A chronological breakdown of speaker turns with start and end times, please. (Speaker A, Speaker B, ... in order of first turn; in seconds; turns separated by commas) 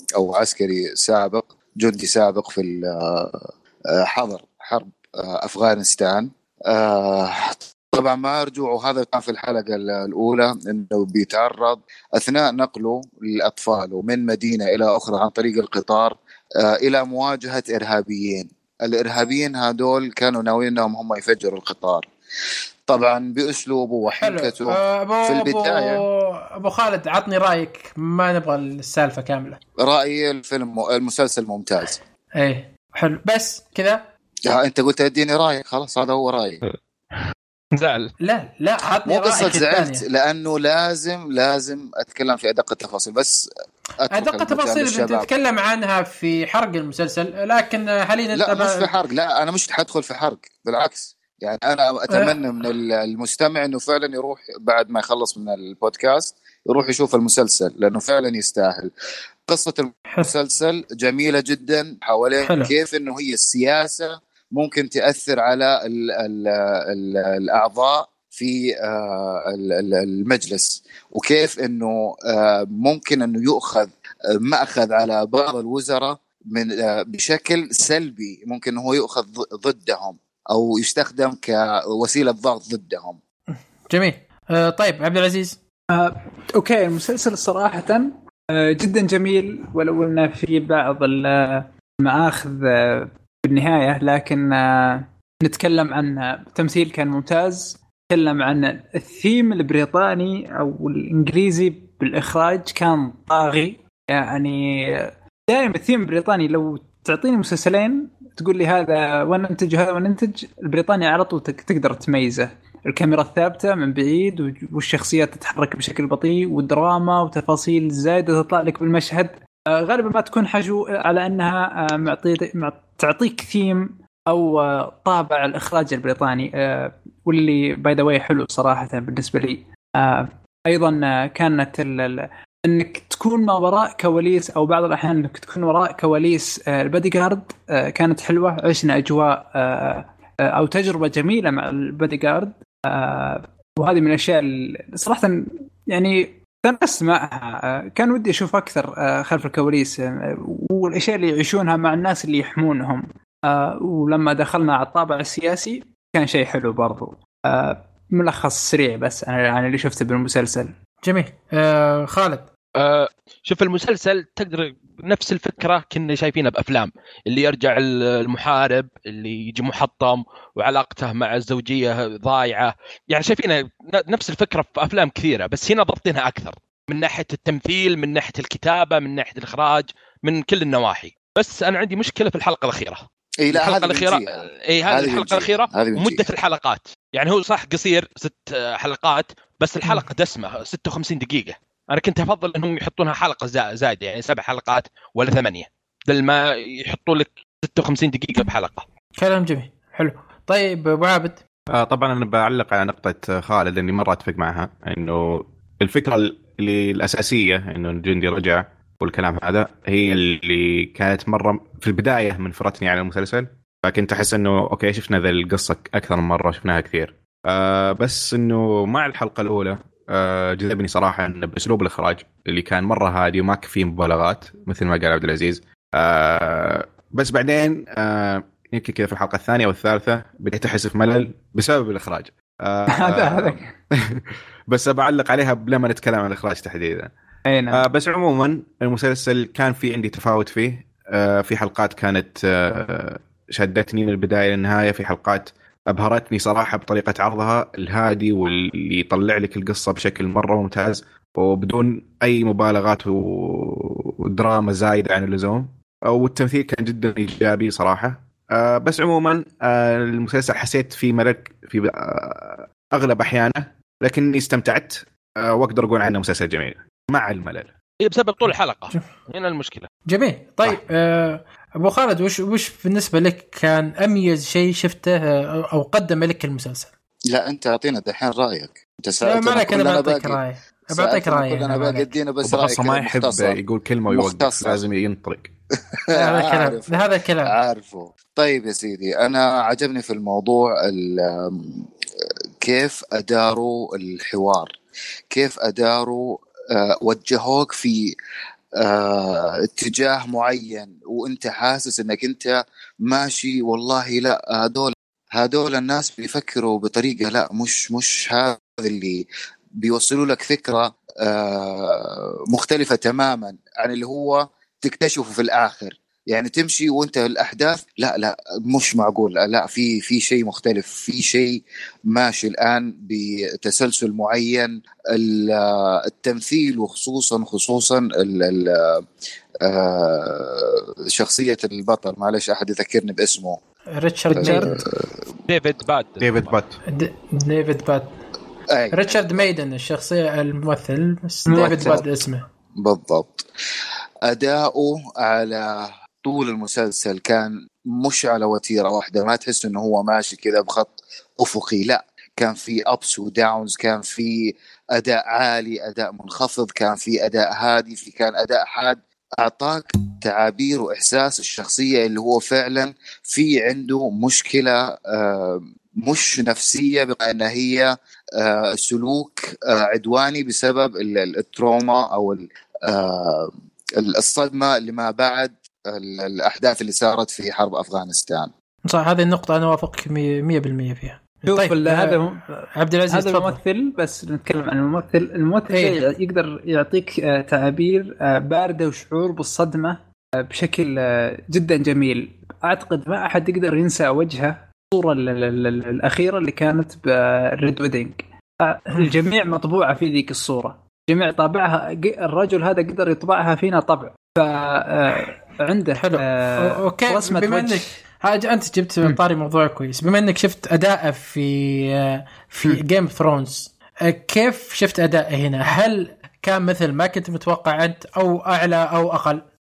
Speaker A: 0.2-3.4, Speaker A: 4.0-22.1, Speaker A: 22.9-26.0, Speaker B: 24.1-29.6, Speaker A: 29.8-32.0, Speaker B: 32.4-34.0, Speaker A: 34.5-36.6, Speaker C: 37.1-38.1, Speaker B: 38.2-40.0, Speaker A: 39.0-43.4, Speaker A: 44.0-45.2, Speaker B: 44.1-48.9, Speaker A: 48.3-58.9, Speaker B: 52.1-52.3, Speaker A: 59.5-73.9, Speaker B: 62.4-62.7, Speaker A: 74.4-83.2, Speaker B: 83.5-85.6, Speaker D: 85.9-145.3, Speaker D: 145.9-160.7, Speaker B: 161.0-162.5, Speaker C: 162.8-198.8, Speaker A: 183.4-186.2, Speaker B: 199.2-201.4, Speaker E: 201.7-233.6, Speaker D: 232.9-233.7, Speaker E: 234.1-237.1, Speaker D: 237.5-237.8, Speaker E: 237.7-267.7, Speaker C: 268.0-269.9, Speaker B: 270.1-276.9, Speaker A: 277.3-280.4, Speaker B: 279.2-282.1, Speaker A: 280.9-284.8, Speaker E: 282.4-285.5, Speaker A: 286.0-291.9, Speaker B: 286.1-287.5, Speaker A: 292.6-294.8, Speaker A: 295.3-298.1, Speaker A: 298.8-309.2, Speaker A: 309.8-329.0, Speaker A: 329.6-333.6, Speaker B: 334.0-334.8, Speaker D: 334.4-334.8, Speaker A: 334.4-335.1, Speaker C: 335.5-336.6, Speaker E: 336.2-336.8, Speaker B: 336.9-338.1, Speaker A: 338.7-339.5, Speaker B: 338.9-342.4, Speaker D: 341.5-342.0, Speaker A: 341.5-342.0, Speaker A: 342.8-343.5, Speaker A: 344.3-378.5, Speaker B: 378.9-382.2, Speaker D: 381.5-382.4, Speaker B: 382.8-383.6, Speaker D: 383.1-407.9, Speaker B: 385.7-386.0, Speaker B: 405.9-419.4